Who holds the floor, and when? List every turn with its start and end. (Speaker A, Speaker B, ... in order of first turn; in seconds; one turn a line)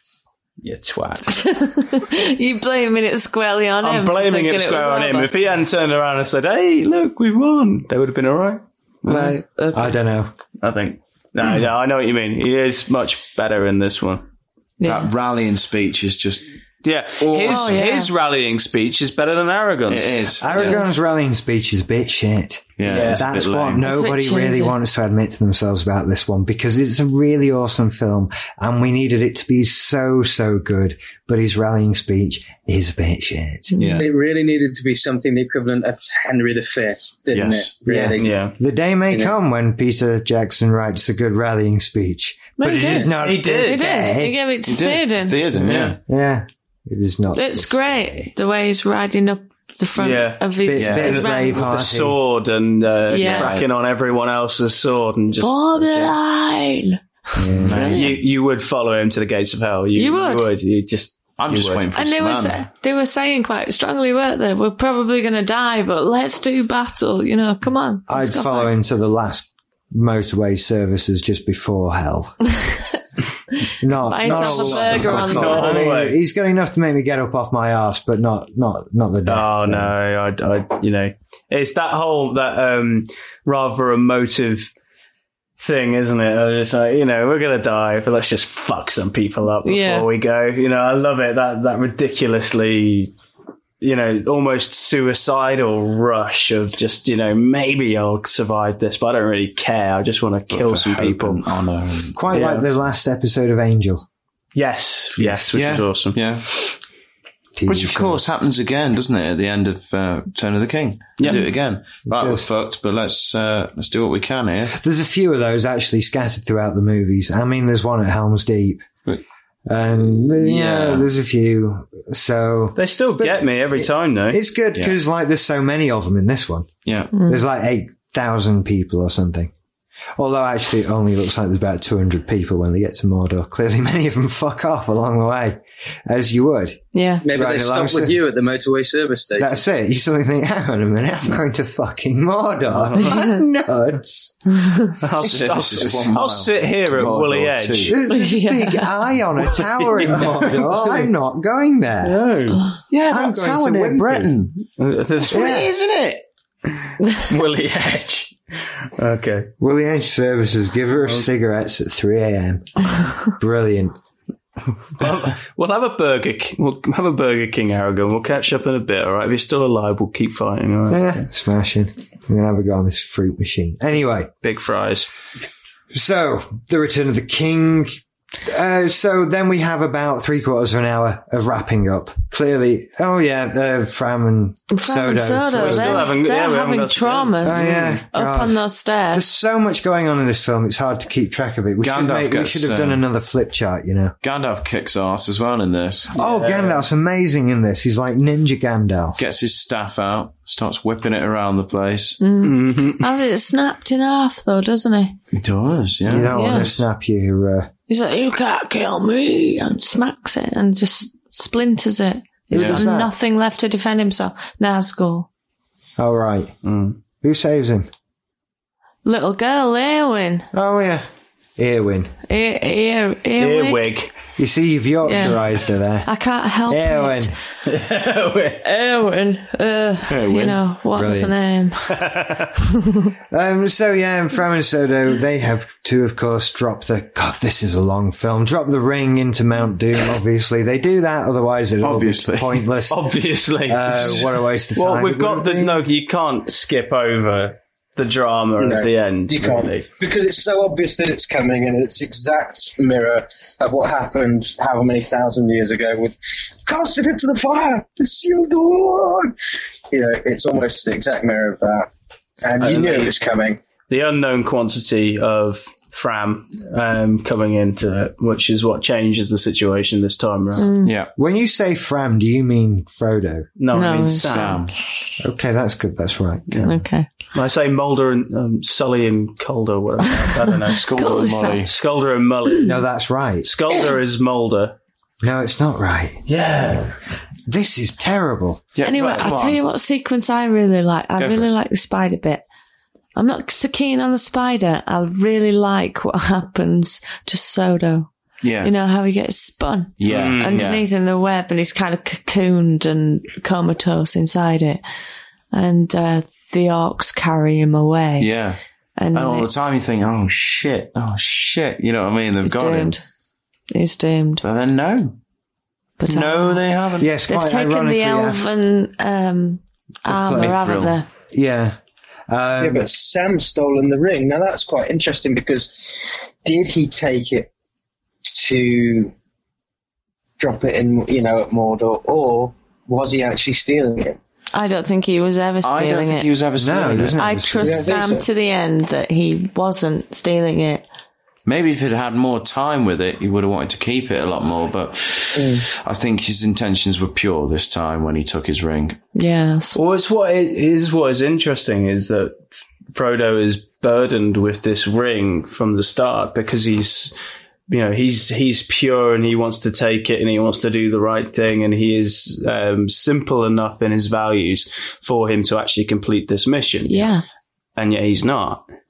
Speaker A: 0.6-1.4
Speaker B: 1.3-5.4
Speaker A: 3.8-9.4
Speaker B: 9.1-9.9
Speaker C: 9.7-10.3
Speaker A: 10.6-14.2
Speaker B: 14.8-15.1
Speaker D: 14.8-16.5
Speaker A: 16.8-20.5
Speaker D: 17.2-17.8
Speaker B: 17.4-18.1
Speaker D: 19.9-20.8
Speaker C: 20.4-33.7
Speaker D: 22.8-23.9
Speaker A: 22.8-23.3
Speaker B: 23.8-24.8
Speaker B: 33.7-34.0
Speaker D: 33.8-34.1
Speaker E: 34.0-38.4
Speaker D: 37.3-37.7
Speaker C: 37.9-44.4
Speaker A: 38.2-38.5
Speaker B: 42.6-45.4
Speaker A: 42.9-43.8
Speaker D: 44.6-46.0
Speaker A: 45.6-45.9
Speaker C: 46.1-47.8
Speaker B: 47.3-51.7
Speaker A: 50.0-50.4
Speaker C: 50.6-52.2
Speaker D: 50.8-51.9
Speaker A: 51.0-56.2
Speaker B: 53.1-53.5
Speaker D: 53.2-53.7
Speaker B: 55.4-57.0
Speaker C: 57.4-58.0
Speaker D: 57.5-58.2
Speaker B: 57.6-58.1
Speaker A: 57.8-61.9
Speaker B: 60.0-60.5
Speaker D: 61.4-62.7
Speaker B: 61.9-68.7
Speaker C: 68.1-72.4
Speaker C: 73.8-79.9
Speaker B: 74.0-75.8
Speaker A: 74.3-76.2
Speaker A: 79.2-84.7
Speaker A: 85.6-93.1
Speaker B: 89.6-90.1
Speaker A: 93.8-101.5
Speaker D: 100.5-102.5
Speaker C: 102.1-104.0
Speaker A: 102.3-102.7
Speaker A: 104.5-106.2
Speaker D: 105.5-106.8
Speaker C: 107.5-108.2
Speaker D: 107.7-114.8
Speaker A: 111.2-111.5
Speaker C: 112.0-112.5
Speaker C: 114.7-118.9
Speaker C: 119.7-129.5
Speaker D: 120.4-121.0
Speaker A: 122.8-124.4
Speaker D: 126.8-127.1
Speaker B: 127.1-127.4
Speaker C: 130.2-138.2
Speaker B: 136.9-137.2
Speaker E: 137.2-139.6
Speaker C: 139.4-144.7
Speaker A: 142.7-143.2
Speaker B: 143.1-143.4
Speaker A: 145.0-147.9
Speaker D: 145.2-147.9
Speaker C: 147.9-152.2
Speaker B: 148.0-148.9
Speaker A: 149.6-151.1
Speaker A: 152.0-152.6
Speaker D: 152.9-154.6
Speaker C: 153.1-154.3
Speaker A: 154.8-155.7
Speaker D: 155.2-156.2
Speaker A: 156.8-158.3
Speaker A: 159.0-159.5
Speaker C: 159.6-163.9
Speaker A: 164.9-171.2
Speaker C: 170.9-174.3
Speaker A: 174.4-175.1
Speaker C: 175.9-186.1
Speaker B: 184.7-189.2
Speaker A: 185.5-187.9
Speaker C: 187.4-194.1
Speaker D: 191.8-193.0
Speaker D: 194.2-196.1
Speaker C: 196.1-199.2
Speaker A: 196.1-196.8
Speaker D: 199.2-202.2
Speaker B: 202.2-205.2
Speaker A: 202.4-203.1
Speaker D: 205.3-206.3
Speaker C: 206.1-207.7
Speaker B: 206.3-206.8
Speaker B: 207.9-215.3
Speaker C: 212.5-213.1
Speaker D: 212.5-212.8
Speaker C: 216.0-216.5
Speaker A: 216.6-217.0
Speaker C: 217.2-217.9
Speaker B: 219.0-220.5
Speaker C: 220.5-221.0
Speaker C: 221.6-222.1
Speaker B: 222.3-223.9
Speaker A: 223.4-224.1
Speaker C: 224.3-226.1
Speaker B: 225.0-225.3
Speaker B: 226.0-227.3
Speaker C: 226.7-227.3
Speaker A: 227.7-228.6
Speaker B: 228.6-232.0
Speaker D: 230.1-230.6
Speaker C: 230.9-231.3
Speaker A: 231.9-232.5
Speaker B: 232.8-233.1
Speaker C: 233.3-243.0
Speaker D: 241.8-242.7
Speaker A: 242.9-249.9
Speaker C: 243.6-245.8
Speaker E: 248.6-259.3
Speaker E: 259.9-261.9
Speaker E: 262.4-263.6
Speaker A: 262.6-263.2
Speaker A: 263.9-270.7
Speaker B: 270.6-270.9
Speaker D: 270.8-271.1
Speaker C: 271.2-273.5
Speaker A: 273.6-274.6
Speaker B: 273.7-274.6
Speaker D: 274.2-274.7
Speaker C: 275.2-276.7
Speaker B: 276.6-277.1
Speaker A: 277.3-282.8
Speaker D: 280.7-281.7
Speaker B: 280.9-281.7
Speaker C: 282.6-283.5
Speaker A: 283.4-284.8
Speaker C: 285.2-286.2
Speaker A: 286.2-286.9
Speaker C: 287.5-288.7
Speaker D: 288.7-289.6
Speaker B: 288.9-292.4
Speaker A: 288.9-289.3
Speaker D: 291.2-291.5
Speaker B: 293.1-298.1
Speaker D: 298.4-298.7
Speaker B: 298.6-304.8
Speaker D: 300.0-300.8
Speaker A: 300.1-300.8
Speaker B: 305.5-308.3
Speaker D: 308.2-308.6
Speaker B: 309.0-309.5
Speaker D: 309.1-312.9
Speaker B: 312.4-313.0
Speaker B: 313.7-314.4
Speaker D: 314.4-315.2
Speaker B: 316.0-316.6
Speaker D: 316.1-317.1
Speaker C: 317.0-318.4
Speaker B: 317.3-321.1
Speaker C: 320.1-320.6
Speaker D: 320.4-321.0
Speaker C: 321.3-321.8
Speaker C: 322.3-322.9
Speaker E: 322.6-327.5
Speaker E: 328.2-329.1
Speaker E: 330.4-334.2
Speaker B: 334.5-336.3
Speaker D: 335.6-337.2
Speaker C: 336.6-338.0
Speaker B: 337.1-340.8
Speaker E: 337.6-338.2
Speaker D: 341.4-349.0
Speaker E: 345.3-345.6
Speaker B: 349.1-349.8
Speaker A: 349.7-357.1
Speaker A: 357.7-367.1
Speaker B: 366.9-367.2
Speaker A: 367.8-368.6